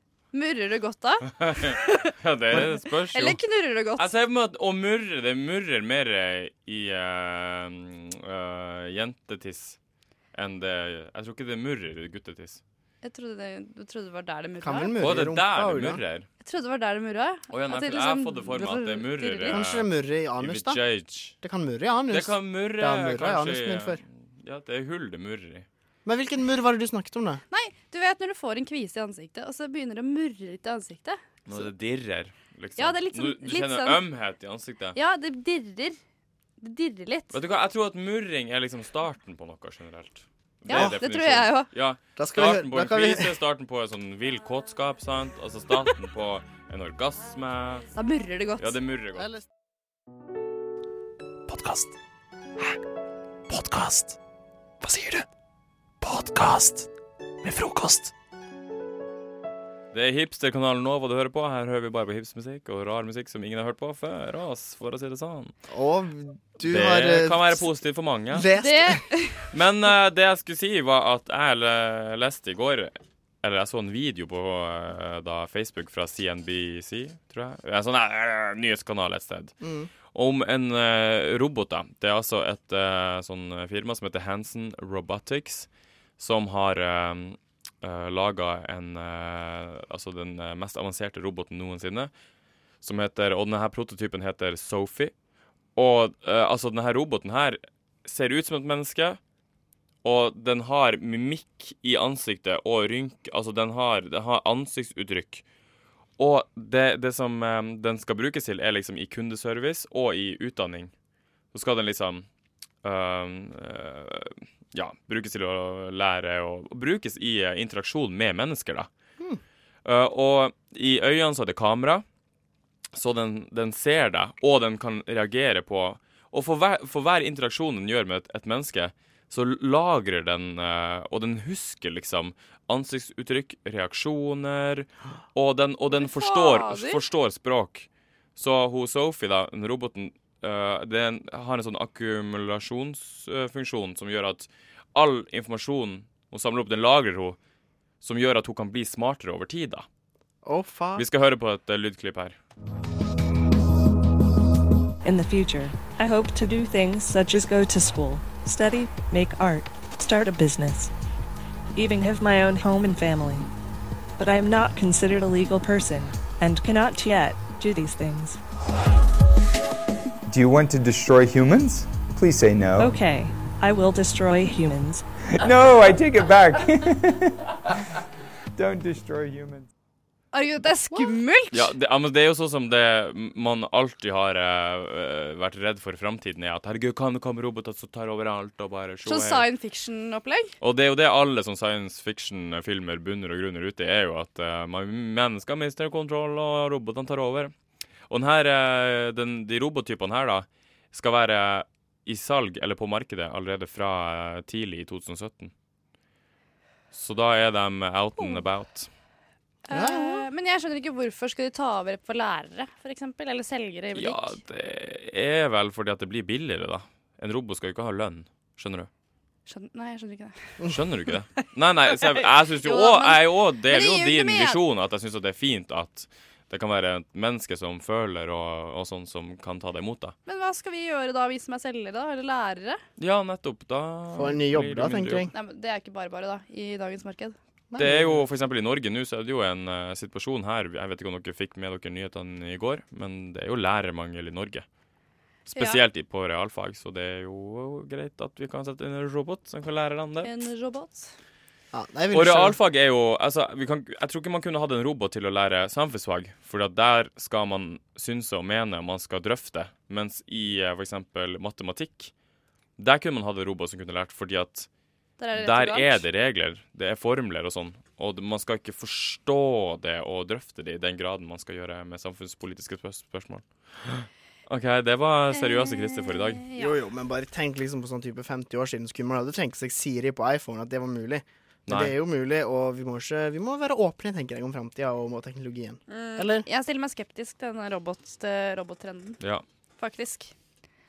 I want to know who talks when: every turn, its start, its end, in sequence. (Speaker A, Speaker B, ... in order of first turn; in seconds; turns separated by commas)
Speaker A: 0.3-4.1, Speaker B: 1.3-3.4, Speaker B: 4.0-9.8, Speaker B: 10.3-12.6, Speaker A: 13.0-14.9, Speaker C: 14.6-16.0, Speaker B: 15.0-16.3, Speaker A: 16.4-19.6, Speaker B: 17.5-21.4, Speaker C: 19.5-20.8, Speaker C: 21.4-24.0, Speaker B: 22.1-25.7, Speaker C: 26.1-27.4, Speaker A: 27.5-31.3, Speaker B: 31.5-35.0, Speaker A: 32.8-34.0, Speaker A: 35.0-36.0, Speaker A: 36.6-37.4, Speaker B: 37.3-47.9, Speaker A: 40.7-41.7, Speaker C: 40.7-41.0, Speaker C: 42.1-43.4, Speaker A: 47.9-48.8, Speaker B: 48.6-49.3, Speaker D: 51.5-51.9, Speaker D: 53.5-54.1, Speaker D: 54.8-55.2, Speaker D: 56.0-56.9, Speaker D: 57.4-58.1, Speaker B: 59.9-65.6, Speaker C: 65.7-67.7, Speaker B: 66.7-68.5, Speaker C: 68.3-69.0, Speaker A: 68.5-69.5, Speaker B: 69.5-92.1, Speaker C: 79.6-79.9, Speaker B: 92.8-95.1, Speaker B: 95.8-99.2, Speaker B: 100.0-105.4, Speaker B: 106.2-110.9, Speaker B: 111.5-112.3, Speaker B: 112.8-118.9, Speaker B: 119.8-122.0, Speaker B: 122.9-147.4, Speaker A: 135.9-137.0, Speaker B: 148.0-149.9, Speaker C: 150.4-151.1, Speaker B: 151.0-152.4, Speaker E: 155.0-160.9, Speaker E: 161.8-163.5, Speaker E: 164.2-168.4, Speaker F: 170.3-173.0, Speaker E: 172.8-175.1, Speaker F: 175.4-177.3, Speaker F: 178.6-179.7, Speaker A: 180.3-181.7, Speaker B: 181.5-189.4, Speaker A: 189.0-190.5, Speaker B: 190.6-197.5, Speaker B: 198.1-205.5, Speaker B: 206.9-208.9, Speaker A: 208.2-208.4, Speaker A: 209.7-214.4, Speaker C: 209.7-210.2, Speaker B: 213.9-218.9, Speaker A: 219.5-220.6, Speaker B: 220.7-230.2, Speaker A: 221.3-224.6, Speaker A: 230.3-232.8, Speaker B: 233.0-235.3, Speaker C: 234.1-235.3, Speaker A: 235.3-237.3, Speaker C: 237.7-238.3, Speaker B: 237.8-244.7, Speaker B: 245.5-250.3, Speaker A: 245.5-245.8, Speaker A: 250.2-251.1, Speaker C: 251.7-252.6, Speaker B: 252.1-262.1, Speaker B: 262.8-264.7, Speaker A: 265.2-266.1, Speaker B: 265.3-276.4, Speaker A: 275.3-276.8, Speaker C: 276.6-286.5, Speaker B: 281.7-281.9, Speaker A: 286.4-289.2, Speaker A: 289.8-290.3